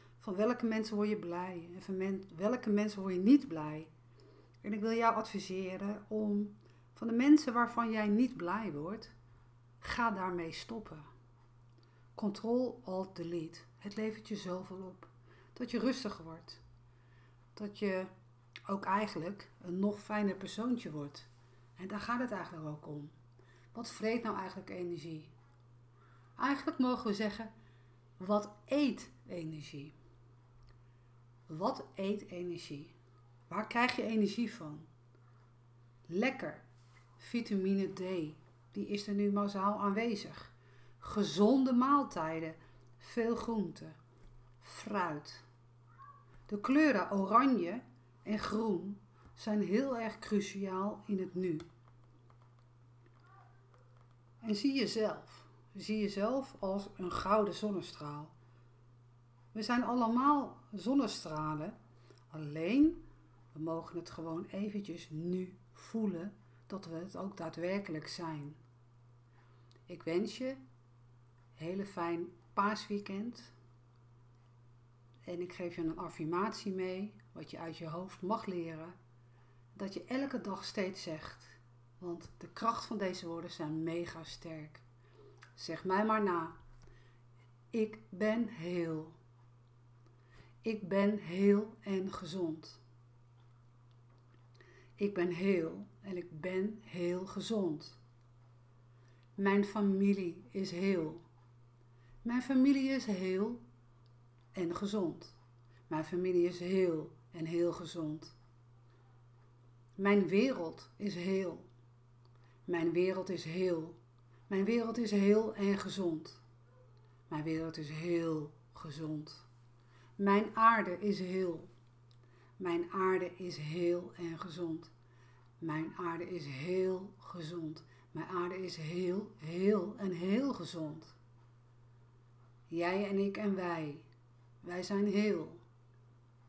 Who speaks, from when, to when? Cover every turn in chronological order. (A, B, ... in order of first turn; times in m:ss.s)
0:00.2-0:03.9 A
0:04.6-0:09.1 A
0:09.8-0:11.1 A
0:12.1-0:16.6 A
0:17.5-0:18.1 A
0:18.7-0:23.1 A
0:23.7-0:25.3 A
0:26.4-0:27.5 A
0:28.2-0:29.9 A
0:31.5-0:32.9 A
0:33.5-0:34.9 A
0:36.1-0:36.6 A
0:37.2-0:44.0 A
0:44.6-0:45.4 A
0:46.5-0:51.6 A
0:54.4-0:58.3 A
0:59.5-1:01.8 A
1:02.3-1:08.6 A
1:09.9-1:10.6 A
1:11.6-1:13.5 A
1:15.3-1:18.9 A
1:19.7-1:24.8 A
1:25.6-1:26.6 A
1:27.7-1:29.2 A
1:30.6-1:32.8 A
1:35.0-1:38.0 A
1:39.4-1:41.2 A
1:42.2-1:43.6 A
1:44.5-1:45.4 A
1:45.9-1:48.3 A
1:50.0-1:51.7 A
1:52.6-1:56.4 A
1:57.3-1:59.4 A
2:00.2-2:01.7 A
2:02.6-2:04.9 A
2:05.6-2:11.1 A
2:12.7-2:14.1 A
2:14.6-2:15.6 A